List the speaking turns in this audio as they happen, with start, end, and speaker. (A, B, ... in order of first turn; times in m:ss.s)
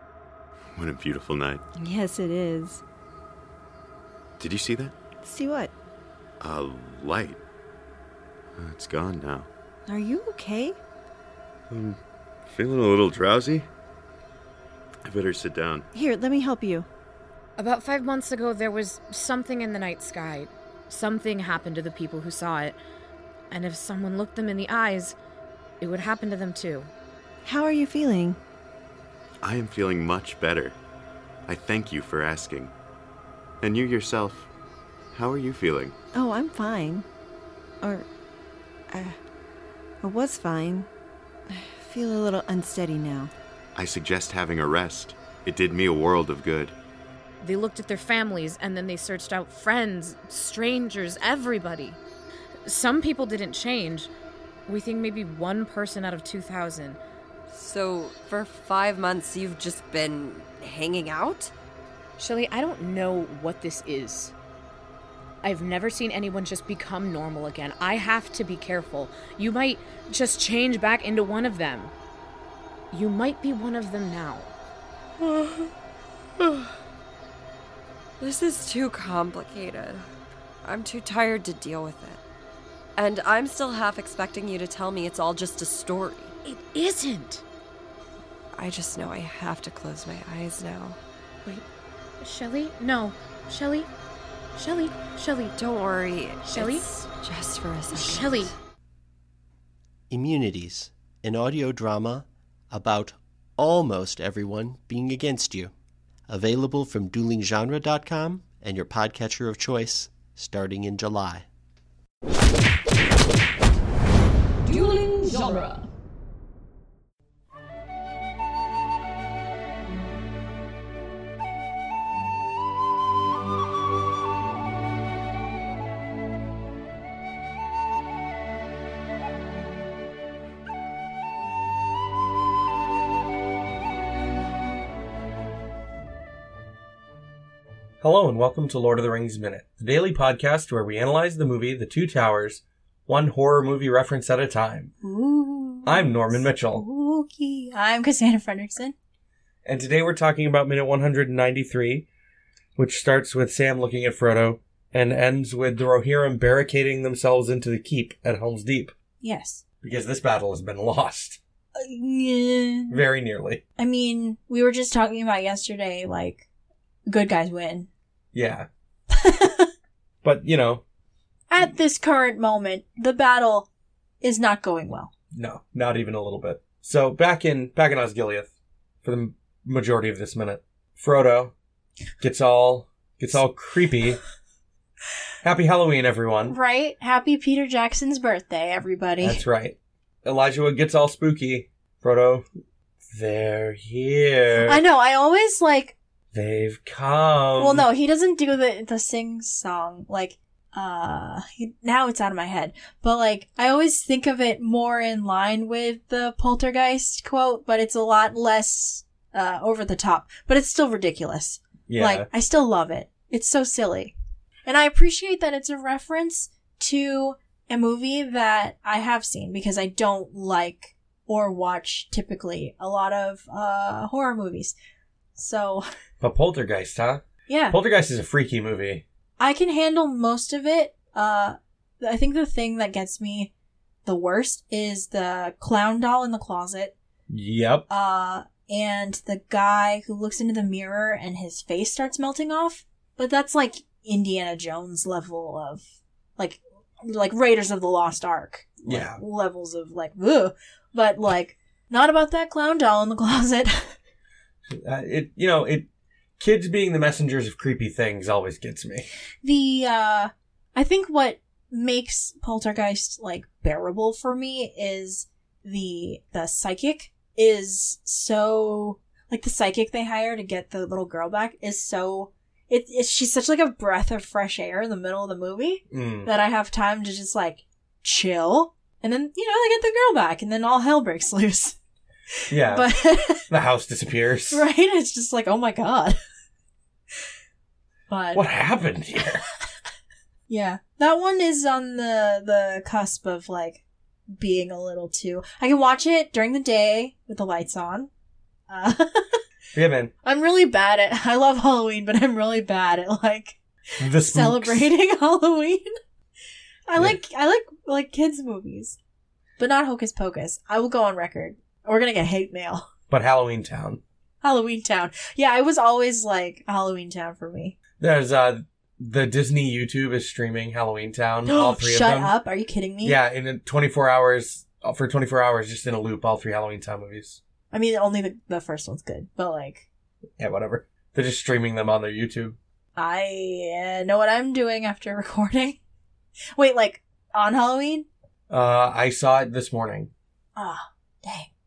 0:00.8-0:01.6 A
0:01.8-0:02.8 B
0:04.4-0:05.0 A
0:05.2-0:05.7 B
0:06.4-0:07.4 A
0:08.6-0:09.5 A
0:09.9-0:10.8 B
0:11.7-0:12.0 A
0:12.5-0:13.7 A
0:15.1-0:15.9 A
0:15.9-0:16.9 B
0:17.6-0:22.8 C
0:23.5-0:25.2 C
0:25.8-0:26.9 C
0:27.4-0:28.4 B
0:29.4-0:30.8 A
0:31.5-0:32.7 A
0:33.6-0:34.5 A
0:35.1-0:36.0 A
0:36.1-0:37.1 B
0:37.8-0:38.1 B
0:38.9-0:39.2 B
0:40.0-0:40.9 B
0:41.5-0:43.3 B
0:43.8-0:46.8 A
0:47.4-0:52.0 C
0:52.7-0:54.1 C
0:54.7-0:57.0 C
0:57.5-1:01.5 D
1:02.2-1:04.3 C
1:05.4-1:11.9 C
1:12.9-1:14.5 C
1:15.2-1:15.7 D
1:16.4-1:16.7 D
1:18.2-1:20.0 D
1:20.6-1:22.2 D
1:23.0-1:26.3 D
1:26.4-1:27.4 C
1:28.6-1:31.0 D
1:32.2-1:33.9 C
1:34.6-1:35.5 C
1:35.6-1:38.5 D
1:36.4-1:36.9 C
1:37.9-1:38.5 C
1:40.1-1:45.7 E
1:46.3-1:51.5 E
2:18.0-2:24.9 F
2:25.0-2:28.9 G
2:25.8-2:26.8 F
2:29.6-2:32.1 F
2:32.8-2:38.9 F
2:39.2-2:39.6 G
2:39.8-2:41.4 F
2:41.8-2:43.0 G
2:42.9-2:43.6 F
2:43.8-2:46.5 G
2:47.1-2:47.9 G
2:48.3-2:48.7 F
2:49.2-2:49.7 G
2:50.2-2:50.8 F
2:51.5-2:53.7 G
2:54.2-2:55.1 G
2:55.3-2:58.5 F
2:59.0-3:01.5 F
3:02.2-3:04.2 F
3:05.4-3:06.6 F
3:06.5-3:09.4 G
3:09.2-3:12.4 F
3:13.1-3:14.8 F
3:14.6-3:16.0 G
3:16.3-3:17.8 F
3:17.6-3:34.1 G
3:31.9-3:32.3 F
3:34.7-3:44.8 G
3:45.4-3:45.8 G
3:46.2-3:49.0 F
3:47.5-3:47.8 G
3:49.4-3:53.5 G
3:54.0-3:57.0 G
3:57.3-3:57.8 F
3:57.9-4:13.9 G
4:08.8-4:09.2 F
4:14.7-4:15.9 F
4:16.4-4:19.1 F
4:19.4-4:41.8 G
4:35.9-4:36.3 F
4:42.5-4:43.5 G
4:42.5-4:42.9 F
4:43.5-4:44.6 F
4:44.5-4:46.2 G
4:48.1-4:48.4 G
4:48.3-4:49.4 F
4:50.5-4:53.8 G
4:54.3-4:58.1 G
4:58.7-4:59.4 G
4:59.8-5:00.1 F
5:00.2-5:05.9 G
5:04.0-5:04.9 F
5:06.9-5:09.0 G
5:09.6-5:12.9 G
5:13.1-5:14.0 F
5:14.4-5:17.8 G
5:18.0-5:22.3 F
5:21.4-5:23.2 G
5:23.0-5:27.4 F
5:27.7-5:29.9 G
5:30.4-5:32.6 F
5:33.0-5:35.8 G
5:36.6-5:38.1 G
5:38.5-5:40.1 F
5:40.6-5:41.5 G